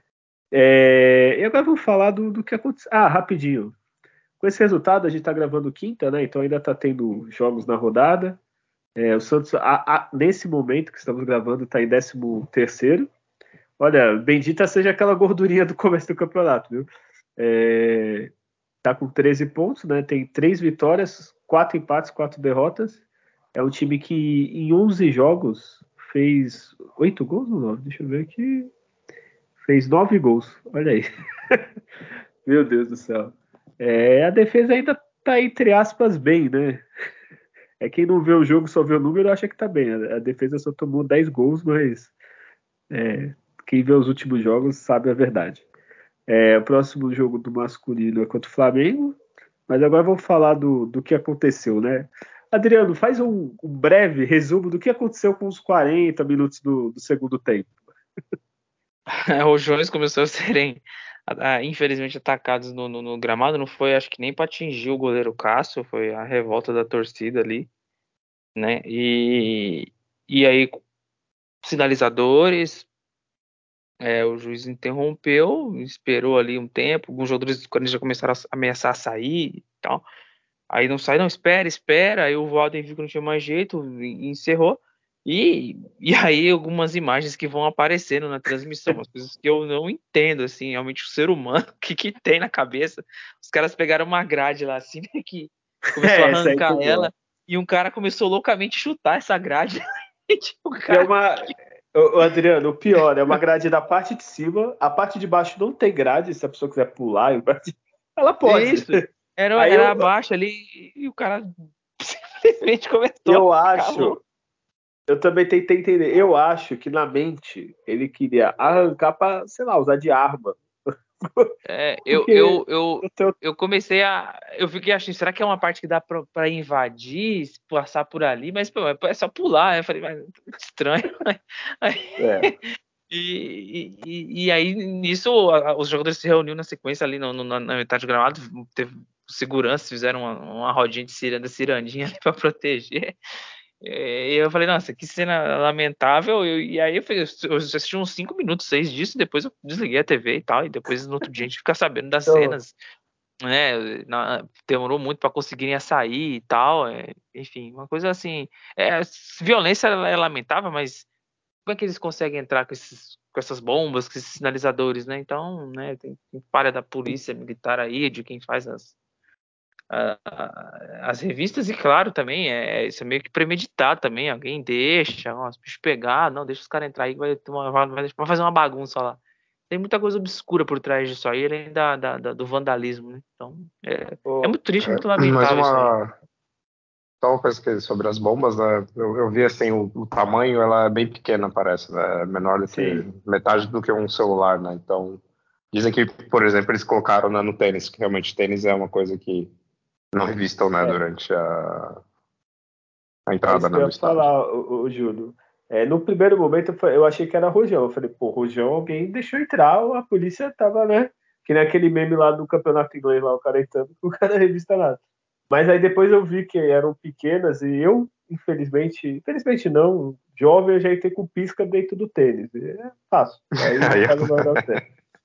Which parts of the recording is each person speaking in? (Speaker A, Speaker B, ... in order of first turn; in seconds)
Speaker A: 0.5-3.8, 4.4-8.4, 9.0-13.1, 13.8-18.3, 18.8-23.0, 23.6-28.7, 29.6-31.6, 32.5-36.9, 37.8-42.1, 42.9-45.6, 46.3-49.2, 49.7-57.8, 95.9-97.1, 100.9-109.0, 109.6-110.1, 113.3-114.2, 115.1-120.6, 121.3-121.5, 122.1-123.3, 132.2-132.5, 152.3-152.6, 184.2-184.6, 192.7-193.1, 203.5-224.8
Speaker B: 59.3-67.7, 68.6-70.8, 71.6-72.9, 74.0-80.0, 80.7-101.1, 108.5-114.2, 121.7-132.5, 133.1-143.1, 143.8-152.8, 153.4-161.1, 161.7-168.9, 169.9-179.2, 179.7-185.9
Speaker C: 184.8-186.1, 187.2-199.5, 200.1-202.0, 203.3-204.3, 223.8-224.8